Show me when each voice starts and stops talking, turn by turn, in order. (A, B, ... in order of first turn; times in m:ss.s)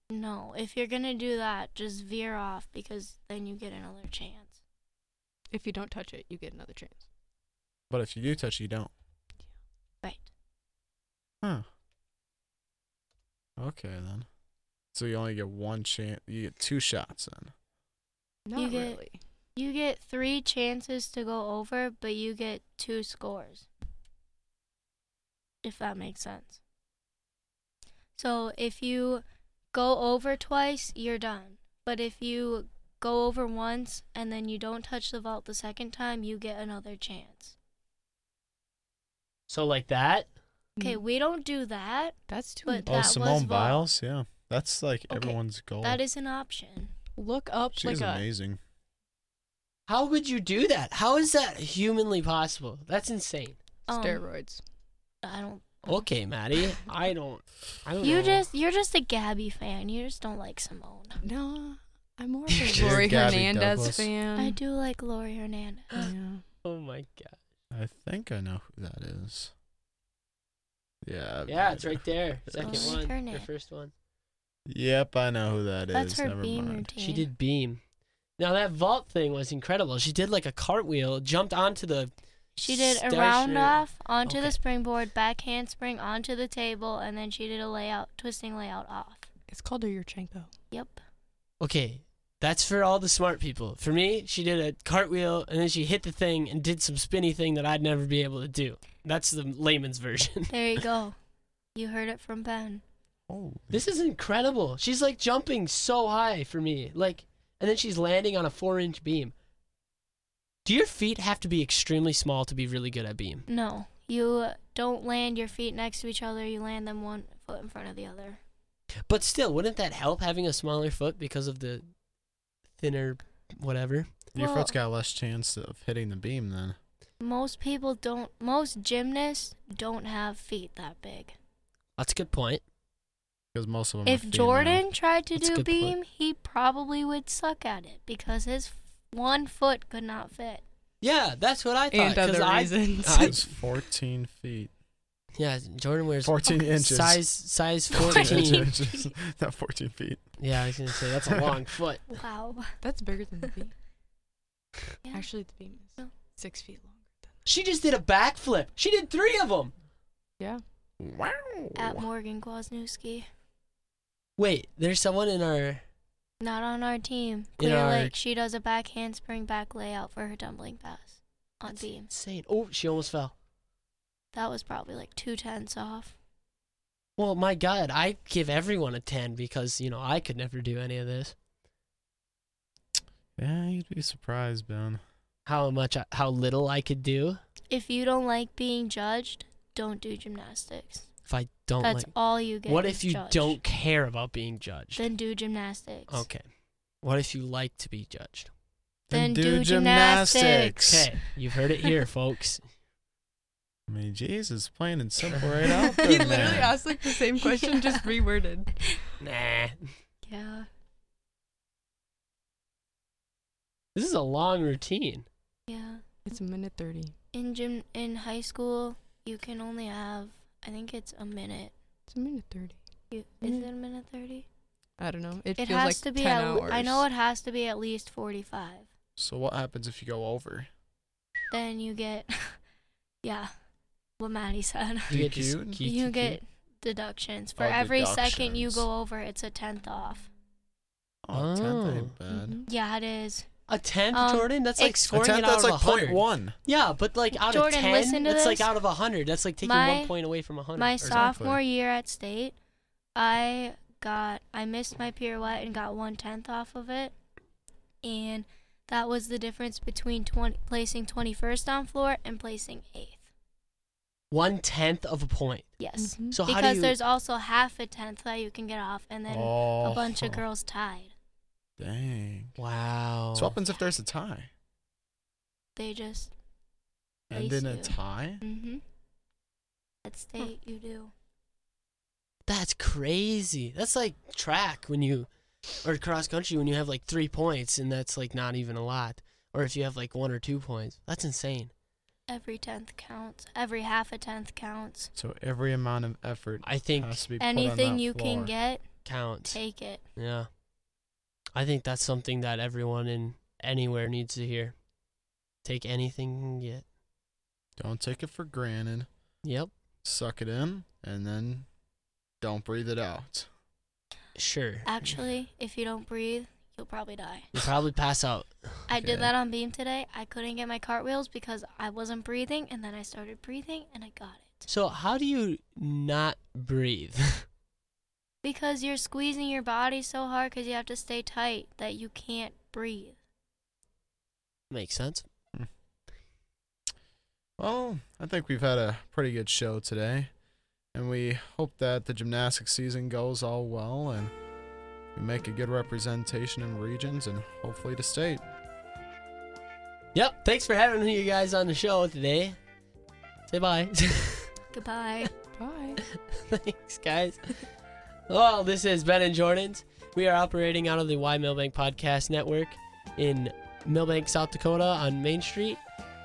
0:00.1-0:04.5 A
0:05.5-0:07.0 B
0:07.9-0:08.9 C
0:13.6-0:14.3 C
0:14.9-0:17.5 C
0:18.4-0:19.2 B
0:18.6-0:19.0 A
0:19.6-0:23.7 A
0:25.6-0:26.6 A
0:28.1-0:37.5 A
0:39.5-0:40.3 D
0:40.8-0:43.8 A
0:42.3-0:43.1 B
0:42.9-0:46.0 C
0:45.1-0:46.9 A
0:47.2-0:48.2 B
0:47.7-0:48.6 C
0:49.9-0:53.6 D
0:53.9-0:54.2 A
0:53.9-0:54.6 B
0:55.2-0:56.0 A
0:55.8-0:58.4 D
0:58.0-1:01.2 A
1:01.2-1:04.6 B
1:02.5-1:03.0 D
1:02.7-1:04.1 C
1:04.4-1:06.1 A
1:06.0-1:06.4 B
1:06.6-1:07.4 D
1:07.7-1:09.5 C
1:11.0-1:12.9 C
1:11.5-1:13.9 D
1:12.6-1:13.5 A
1:14.7-1:16.9 C
1:15.9-1:17.3 A
1:17.0-1:17.8 D
1:18.4-1:22.1 D
1:22.6-1:29.3 A
1:22.6-1:24.6 D
1:29.5-1:30.5 B
1:30.7-1:31.0 A
1:31.6-1:40.8 D
1:40.5-1:41.2 A
1:41.7-1:42.8 A
1:43.3-1:43.8 C
1:43.7-1:49.3 D
1:50.6-1:53.5 D
1:53.5-1:58.4 A
1:59.1-2:01.8 D
2:02.8-2:04.1 D
2:04.3-2:06.8 C
2:04.4-2:04.7 A
2:07.2-2:11.3 A
2:12.0-2:12.6 D
2:13.5-2:14.8 C
2:14.0-2:20.6 A
2:15.4-2:15.9 D
2:21.0-2:23.4 D
2:21.9-2:23.4 B
2:23.2-2:24.7 C
2:25.4-2:28.7 D
2:26.2-2:27.2 C
2:27.9-2:29.1 A
2:27.9-2:31.6 C
2:30.4-2:32.0 D
2:32.1-2:32.7 A
2:32.8-2:33.7 B
2:35.0-2:35.3 A
2:35.1-2:37.3 B
2:37.4-2:39.7 D
2:41.0-2:42.0 C
2:41.8-2:43.3 A
2:44.4-2:45.8 D
2:46.4-2:52.1 A
2:47.6-2:48.1 D
2:51.6-2:53.3 D
2:54.3-2:56.2 A
2:57.2-3:01.3 D
3:03.4-3:05.0 C
3:05.4-3:07.4 D
3:07.7-3:11.1 A
3:11.3-3:15.0 D
3:11.8-3:13.6 A
3:15.0-3:16.2 A
3:16.1-3:16.4 D
3:17.0-3:18.5 D
3:19.1-3:21.1 C
3:19.1-3:20.9 A
3:20.8-3:22.6 D
3:23.9-3:26.7 C
3:25.9-3:28.8 B
3:26.3-3:26.6 D
3:27.6-3:28.0 A
3:29.2-3:29.9 D
3:30.2-3:30.7 A
3:33.9-3:35.2 D
3:35.7-3:36.0 A
3:36.2-3:37.1 B
3:37.3-3:41.7 A
3:42.1-3:42.8 B
3:43.1-3:44.4 A
3:43.4-3:43.7 B
3:45.0-3:47.0 B
3:45.6-3:48.8 A
3:49.2-3:50.7 C
3:51.5-3:52.6 A
3:53.2-3:53.5 A
3:54.2-3:55.2 A
3:55.1-3:55.9 C
3:55.1-3:56.4 D
3:55.8-4:00.3 A
3:57.6-3:58.8 C
4:01.2-4:02.6 C
4:01.3-4:02.1 D
4:02.3-4:02.7 B
4:02.6-4:03.5 A
4:03.7-4:11.3 D
4:04.1-4:05.1 A
4:05.1-4:06.6 C
4:07.3-4:08.7 A
4:09.6-4:10.1 A
4:10.8-4:12.5 A
4:11.0-4:11.6 C
4:13.1-4:17.1 A
4:18.0-4:23.2 A
4:24.3-4:25.7 D
4:25.8-4:31.1 A
4:26.0-4:26.4 B
4:26.3-4:27.0 D
4:29.3-4:30.4 C
4:31.8-4:32.6 C
4:32.6-4:33.6 D
4:33.3-4:34.5 C
4:35.8-4:36.3 A
4:37.3-4:38.4 C
4:37.3-4:38.8 A
4:40.0-4:41.1 A
4:42.4-4:51.7 D
4:52.3-4:55.1 A
4:55.2-4:58.5 C
4:56.6-4:57.2 D
4:57.4-4:58.9 A
4:59.0-4:59.6 D
4:59.4-5:00.0 A
5:00.2-5:00.5 D
5:01.5-5:04.8 D
5:05.6-5:06.8 D
5:07.8-5:09.1 C
5:09.4-5:09.7 D
5:10.0-5:11.7 C
5:12.4-5:13.5 C
5:14.4-5:15.2 D
5:14.8-5:17.5 A
5:17.5-5:18.9 D
5:18.9-5:24.6 A
5:19.0-5:19.3 C
5:24.7-5:27.4 D
5:28.4-5:33.2 A
5:34.7-5:35.2 D
5:37.6-5:40.3 C
5:40.9-5:44.3 C
5:45.1-5:48.4 C
5:50.1-5:52.6 D
5:53.5-5:54.5 D
5:54.7-5:55.3 A
5:55.6-5:56.0 B
5:56.3-5:57.6 D
5:58.3-6:05.8 D